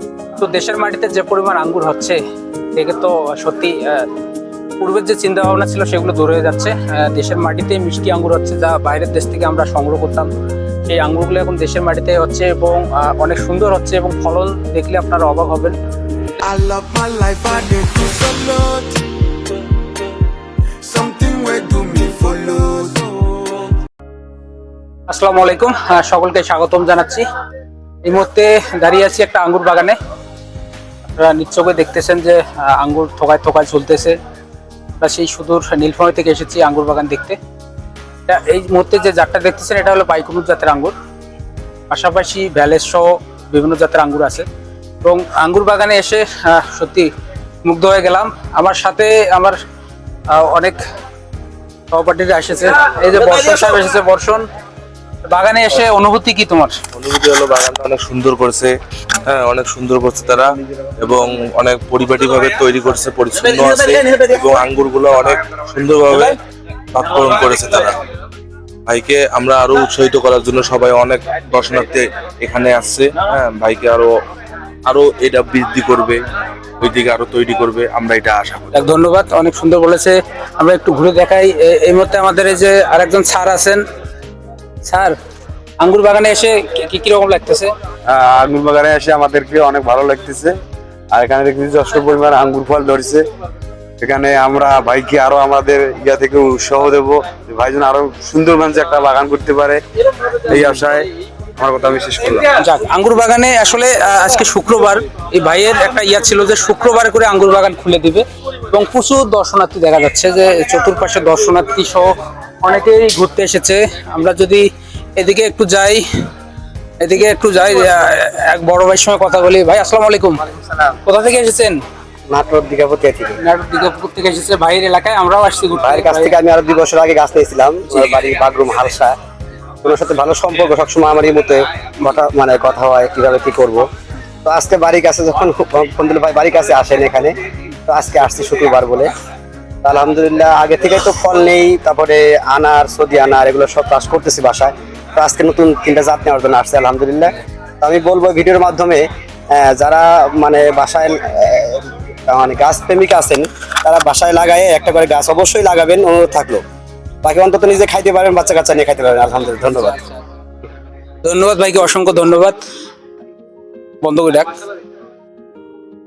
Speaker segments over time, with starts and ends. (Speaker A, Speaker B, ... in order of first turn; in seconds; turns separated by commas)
Speaker A: 0.4-2.2, Speaker A: 2.8-4.1, Speaker A: 4.8-10.3, Speaker A: 10.9-15.8, Speaker B: 16.4-19.0, Speaker B: 20.9-23.7, Speaker A: 25.1-27.3, Speaker A: 28.0-30.0, Speaker A: 31.1-34.2, Speaker A: 35.0-37.4, Speaker A: 38.3-41.0, Speaker A: 41.9-44.5, Speaker A: 45.0-47.1, Speaker A: 47.6-49.6, Speaker A: 50.3-50.8, Speaker A: 51.9-54.5, Speaker A: 55.3-56.8, Speaker C: 56.9-58.7, Speaker C: 59.2-66.4, Speaker C: 66.9-68.0, Speaker C: 68.9-74.1, Speaker C: 74.9-76.2, Speaker C: 76.8-78.8, Speaker A: 78.7-83.8, Speaker A: 84.8-85.2, Speaker A: 85.8-87.7, Speaker D: 88.1-90.6, Speaker D: 91.1-93.2, Speaker D: 94.0-99.8, Speaker D: 100.5-102.5, Speaker A: 102.5-114.7, Speaker A: 115.2-116.0, Speaker A: 117.0-120.5, Speaker A: 121.0-121.8, Speaker E: 122.3-123.4, Speaker A: 123.4-126.3, Speaker E: 125.8-129.2, Speaker E: 129.8-133.8, Speaker E: 134.4-137.3, Speaker E: 137.9-139.1, Speaker E: 139.8-156.6, Speaker E: 157.2-160.0, Speaker A: 161.2-162.6, Speaker A: 164.0-164.6